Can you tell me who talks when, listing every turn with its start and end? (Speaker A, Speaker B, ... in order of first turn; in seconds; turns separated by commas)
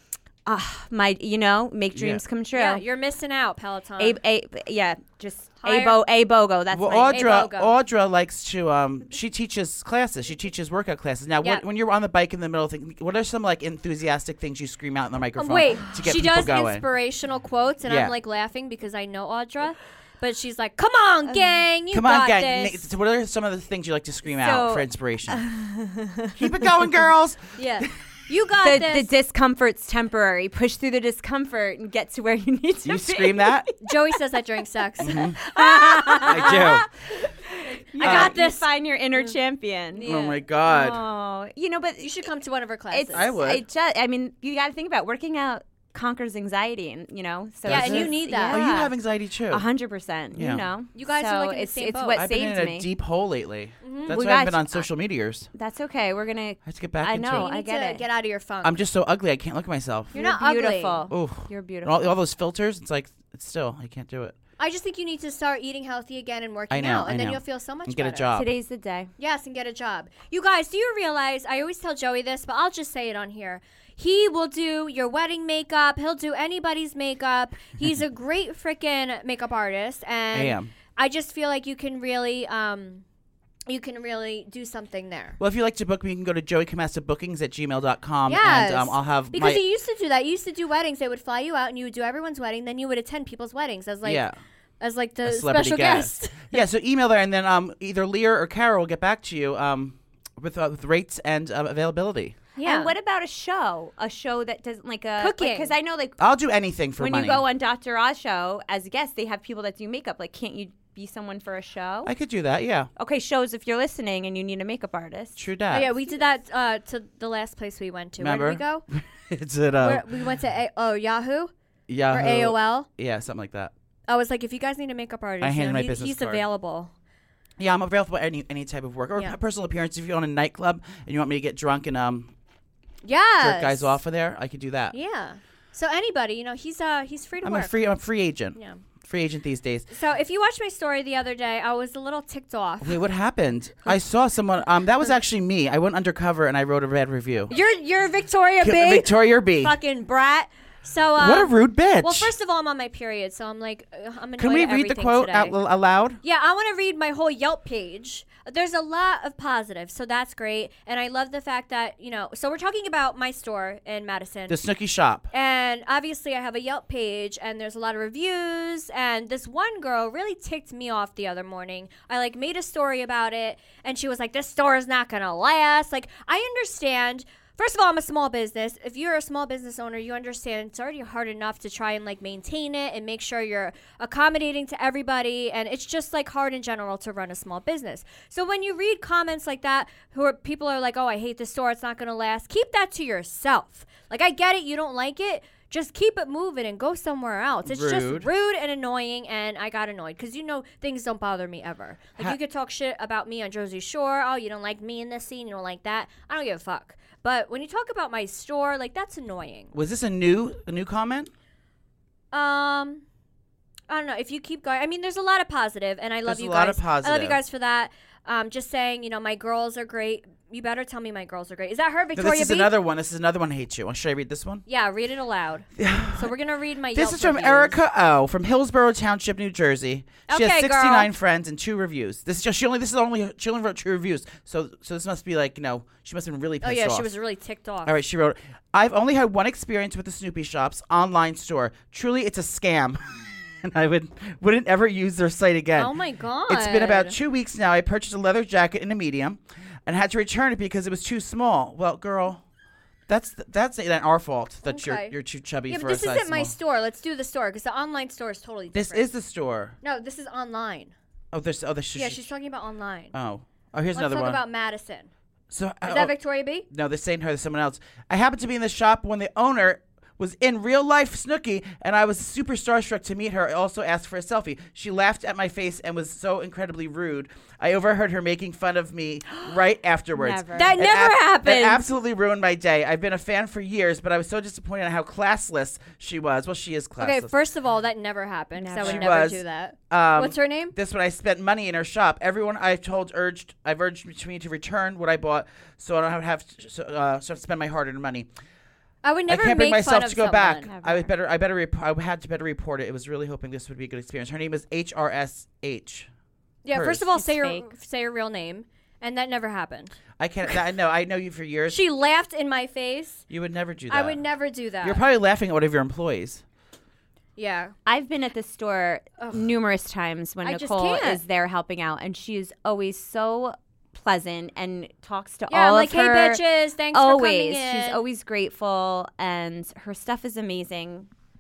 Speaker A: 0.5-2.8, Speaker B: 1.9-2.2, Speaker C: 2.5-4.2, Speaker A: 4.0-7.2, Speaker C: 5.6-6.0, Speaker B: 6.7-16.8, Speaker C: 7.1-7.8, Speaker C: 15.4-22.9, Speaker B: 17.9-18.1, Speaker B: 21.9-25.4, Speaker A: 24.3-26.9, Speaker B: 26.4-27.9, Speaker C: 27.6-29.1, Speaker A: 28.6-34.4, Speaker B: 32.9-33.7, Speaker C: 33.8-36.6, Speaker A: 35.0-40.1, Speaker B: 35.0-35.4, Speaker B: 36.3-36.9, Speaker C: 38.0-38.7, Speaker B: 38.0-38.4, Speaker C: 39.9-40.4, Speaker B: 40.0-41.0, Speaker A: 40.6-42.3, Speaker C: 42.0-43.4, Speaker A: 42.9-48.9, Speaker B: 43.1-43.6, Speaker B: 47.7-49.6, Speaker C: 47.7-48.6, Speaker A: 49.5-52.9, Speaker B: 50.4-50.7, Speaker C: 51.0-52.2, Speaker B: 52.2-55.5, Speaker C: 53.8-54.2, Speaker A: 54.1-54.9, Speaker A: 55.5-58.0, Speaker B: 56.7-57.5, Speaker C: 57.3-58.8, Speaker B: 58.6-60.2, Speaker A: 60.1-62.2, Speaker C: 60.1-61.1, Speaker B: 61.1-64.3, Speaker C: 64.6-68.3, Speaker B: 66.7-68.5, Speaker A: 68.3-69.1, Speaker C: 69.2-83.0, Speaker B: 80.3-80.7, Speaker C: 83.7-85.4, Speaker B: 85.4-89.6, Speaker C: 88.3-94.3, Speaker B: 94.0-94.3, Speaker C: 94.8-96.6, Speaker B: 95.2-102.4, Speaker C: 102.6-102.9, Speaker A: 102.6-106.2, Speaker C: 105.2-105.7, Speaker B: 106.2-107.4, Speaker A: 107.0-112.1, Speaker B: 112.1-112.9, Speaker A: 113.0-115.4, Speaker B: 115.4-115.9, Speaker C: 115.7-118.8, Speaker B: 118.2-120.0, Speaker C: 119.8-121.5, Speaker B: 121.9-123.7, Speaker C: 122.1-122.9, Speaker C: 124.1-126.9, Speaker B: 125.4-126.4, Speaker B: 127.6-132.3, Speaker C: 133.0-134.0, Speaker B: 133.4-134.9, Speaker C: 134.9-137.7, Speaker B: 137.4-139.9, Speaker C: 138.6-138.8, Speaker C: 139.9-143.0, Speaker B: 142.8-147.5, Speaker C: 147.5-155.6, Speaker B: 148.6-149.8, Speaker B: 151.2-152.3, Speaker B: 154.4-156.2, Speaker C: 156.2-164.6, Speaker B: 164.5-165.3, Speaker C: 165.3-209.7, Speaker B: 197.7-198.3, Speaker B: 209.7-211.3, Speaker C: 212.3-213.1, Speaker C: 213.9-222.7, Speaker B: 216.2-217.4, Speaker B: 222.2-224.7, Speaker C: 224.7-227.8, Speaker B: 225.8-226.3, Speaker B: 226.9-237.1, Speaker C: 230.3-231.1, Speaker C: 236.6-238.0, Speaker B: 237.8-245.9, Speaker C: 245.8-247.2, Speaker B: 246.5-252.4, Speaker B: 253.1-256.5, Speaker C: 254.7-255.2, Speaker C: 255.7-259.1, Speaker B: 258.7-259.8, Speaker C: 259.8-260.9, Speaker B: 261.3-262.2, Speaker C: 261.9-263.1, Speaker B: 263.1-264.4, Speaker C: 263.9-265.1, Speaker B: 265.5-266.1, Speaker C: 265.9-266.7, Speaker B: 266.7-287.3, Speaker A: 280.1-280.8, Speaker C: 280.6-281.9, Speaker C: 287.0-290.8, Speaker A: 288.6-289.1, Speaker B: 288.8-298.3, Speaker C: 299.0-300.7, Speaker B: 299.3-306.1, Speaker A: 300.7-301.1, Speaker C: 306.6-310.0, Speaker B: 306.7-307.1, Speaker A: 307.1-307.7, Speaker B: 310.2-311.8, Speaker C: 311.7-313.2, Speaker B: 313.3-314.2, Speaker C: 313.9-315.0, Speaker B: 314.8-316.4, Speaker C: 317.4-317.7, Speaker A: 317.9-326.4, Speaker C: 319.2-319.5, Speaker C: 320.4-321.2, Speaker C: 325.5-328.0, Speaker A: 326.9-331.1